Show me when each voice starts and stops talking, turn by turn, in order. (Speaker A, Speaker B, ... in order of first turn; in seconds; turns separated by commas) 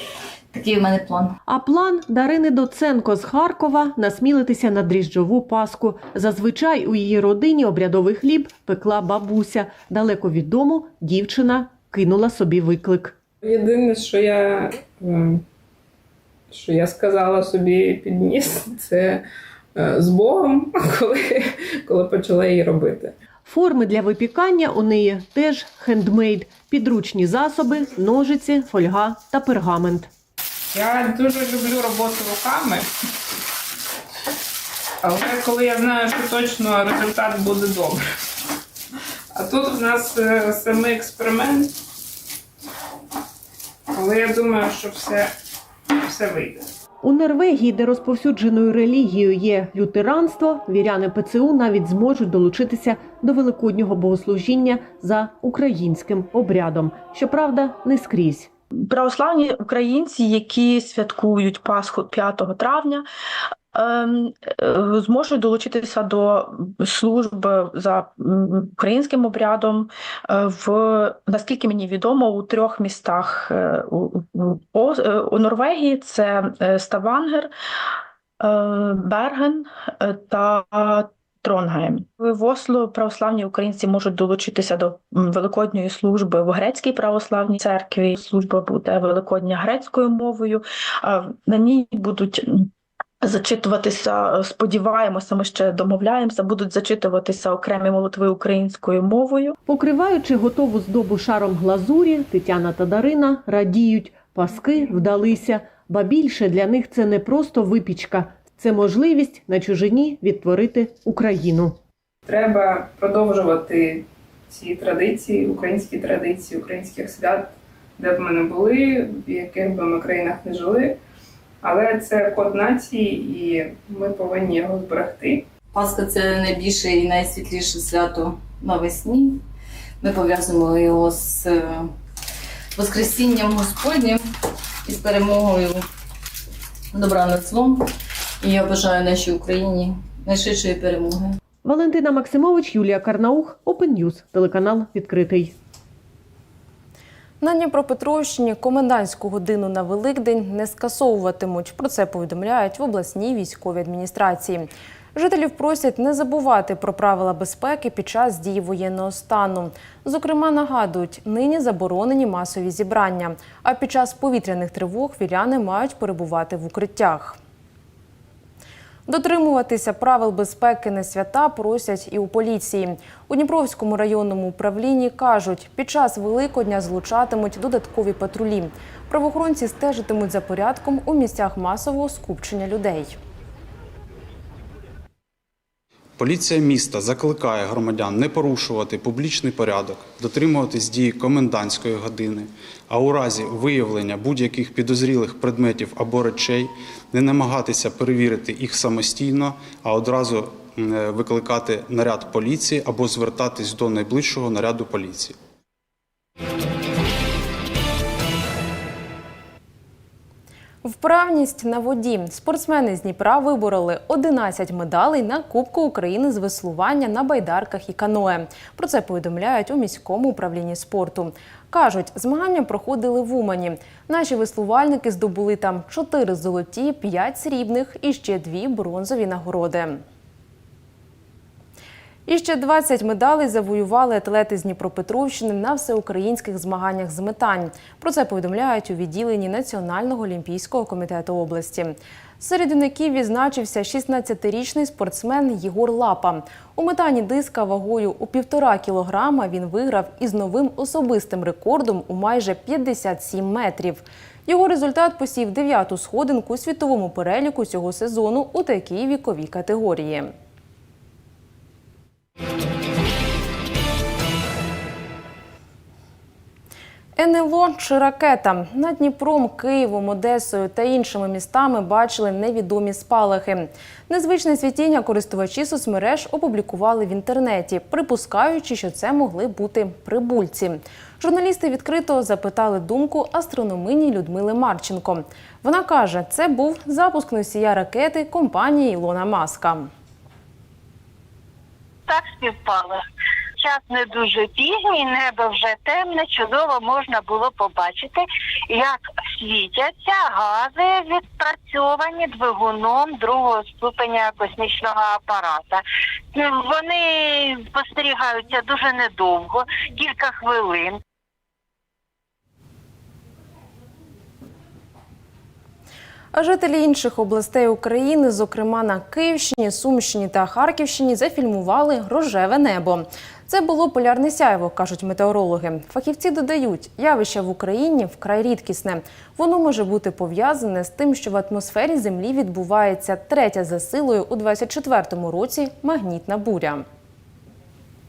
Speaker A: 0.5-1.3, Speaker B: 1.5-13.2, Speaker C: 13.4-15.4, Speaker C: 16.5-19.2, Speaker C: 19.8-23.1, Speaker B: 23.5-30.1, Speaker C: 30.7-32.9, Speaker C: 35.0-38.0, Speaker C: 39.3-41.7, Speaker C: 43.9-45.3, Speaker C: 46.0-46.7, Speaker B: 47.0-58.5, Speaker D: 58.8-63.1, Speaker D: 63.7-77.5, Speaker D: 78.4-92.7, Speaker D: 93.2-99.5, Speaker B: 99.7-111.8, Speaker C: 112.3-121.0, Speaker C: 121.6-125.5, Speaker A: 125.7-129.4, Speaker A: 130.0-131.9, Speaker A: 132.8-134.2, Speaker A: 134.8-135.8, Speaker A: 136.9-137.8, Speaker A: 138.4-141.4, Speaker B: 141.6-145.6, Speaker E: 147.4-167.4, Speaker E: 169.1-183.2, Speaker F: 186.2-205.4, Speaker E: 210.8-230.0, Speaker E: 232.3-260.3, Speaker E: 267.2-289.9, Speaker G: 292.1-293.0, Speaker G: 293.6-311.0, Speaker E: 316.3-336.9